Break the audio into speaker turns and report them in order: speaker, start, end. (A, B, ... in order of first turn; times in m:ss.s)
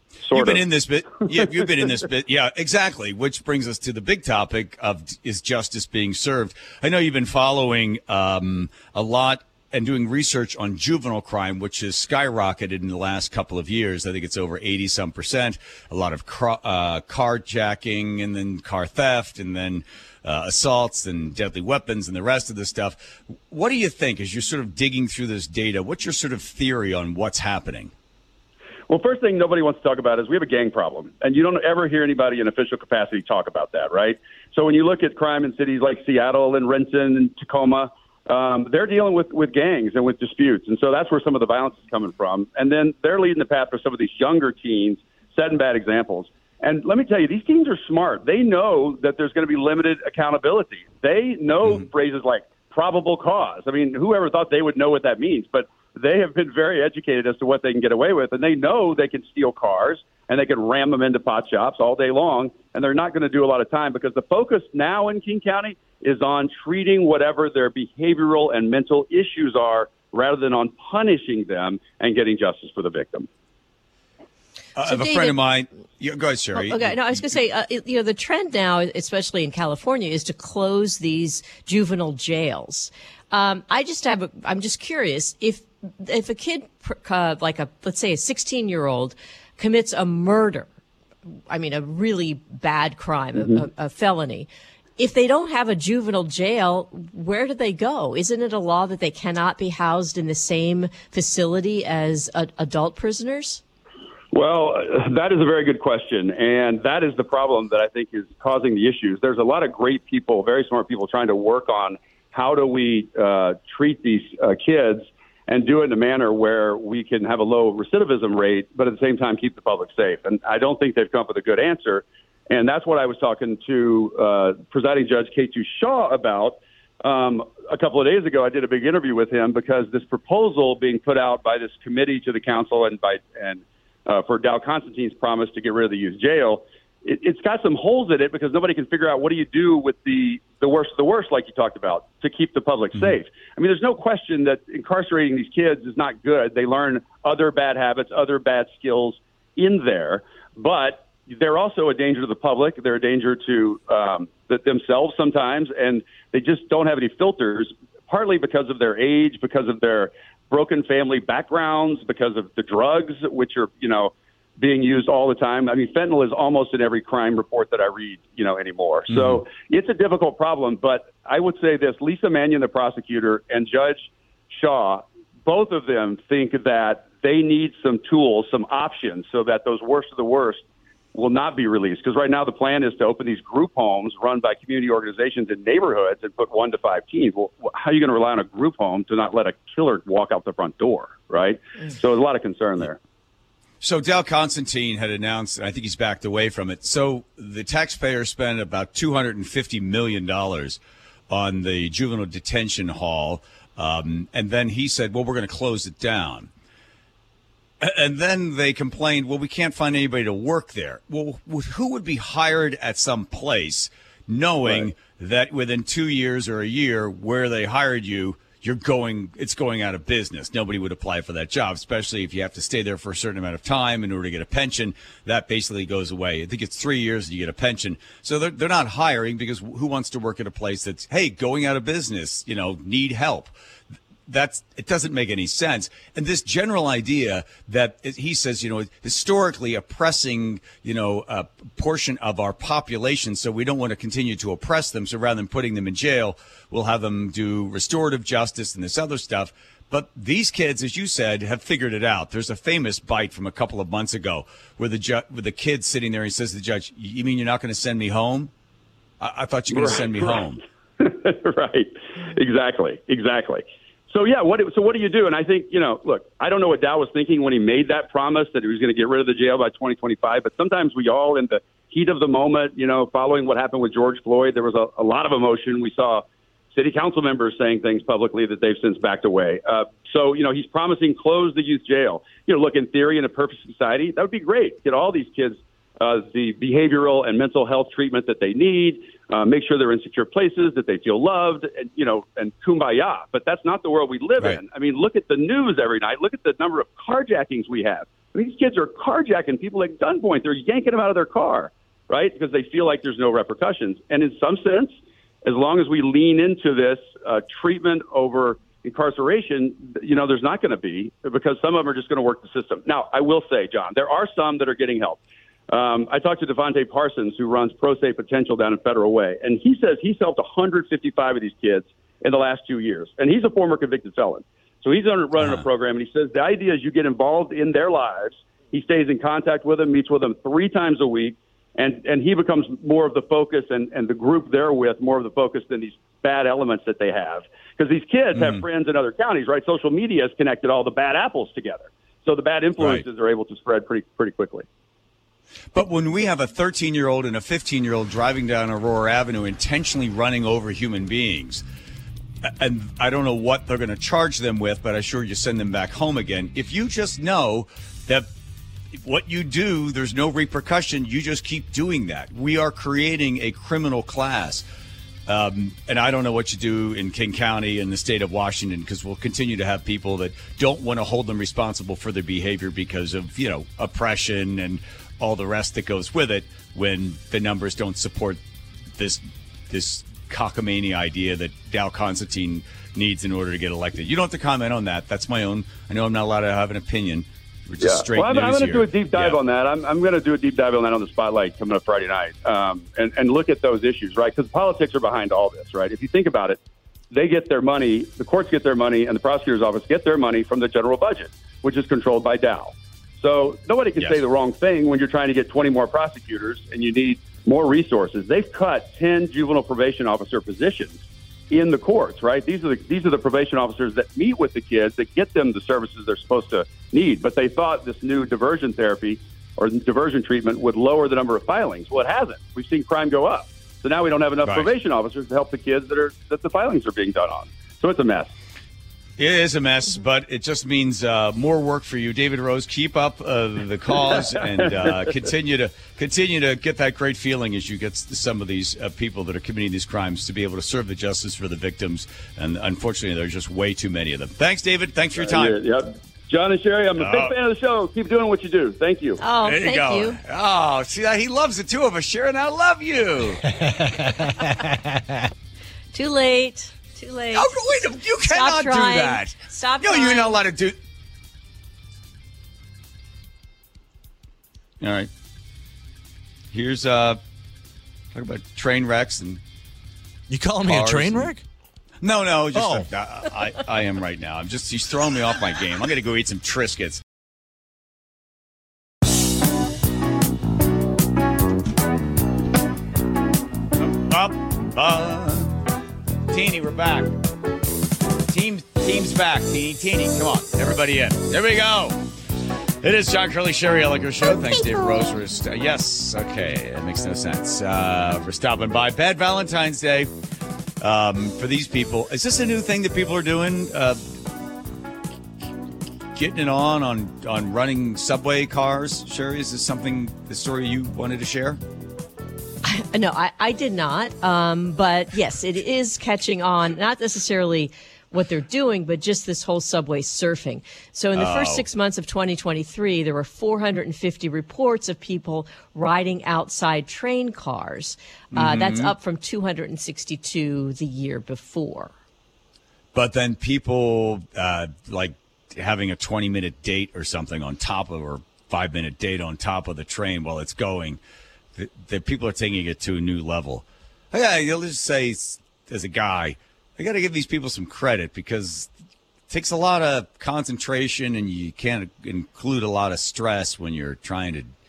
0:00.2-0:00.6 A
0:00.3-0:27.9 B
0:28.9-1:13.3 A
1:14.8-1:17.2 B
1:14.8-1:15.4 C
1:16.5-1:30.7 C
1:31.5-1:43.6 C
1:44.3-3:00.6 A
2:49.1-2:49.4 B
3:01.1-3:13.0 A
3:13.8-3:20.8 B
3:21.3-3:26.5 B
3:27.8-3:53.5 B
3:34.6-3:34.9 A
3:54.3-4:18.5 B
4:19.2-4:20.6 B
4:19.7-4:20.4 A
4:21.0-5:04.9 A
5:05.4-5:44.6 A
5:25.4-5:25.6 B
5:38.3-5:38.6 B
5:42.8-5:43.0 B
5:45.7-5:51.6 B
5:52.4-5:58.3 B
5:58.9-6:04.6 B
6:05.3-6:18.4 B
6:18.9-6:29.4 B
6:27.8-6:36.6 A
6:37.1-7:08.3 A
7:04.4-7:04.7 B
7:09.2-7:25.6 B
7:14.1-7:15.1 A
7:25.2-7:29.2 A
7:27.0-7:27.3 B
7:29.2-7:30.2 C
7:29.4-7:33.4 B
7:33.5-7:34.8 D
7:35.9-7:37.5 C
7:37.3-7:40.8 B
7:38.2-7:40.4 C
7:44.8-7:45.1 B
7:46.5-7:47.2 B
7:48.1-7:49.4 B
7:50.3-7:51.4 D
7:50.6-7:51.3 B
7:52.0-7:57.0 B
7:52.5-7:52.9 D
8:03.8-8:05.5 B
8:06.3-8:07.1 B
8:08.3-8:12.0 B
8:12.8-8:20.1 B
8:20.8-8:24.0 B
8:26.1-8:31.6 B
8:32.6-8:51.9 C
8:41.1-8:41.7 B
8:48.3-8:48.9 B
8:52.9-9:01.0 B
9:01.6-9:08.7 B
9:09.3-9:14.5 B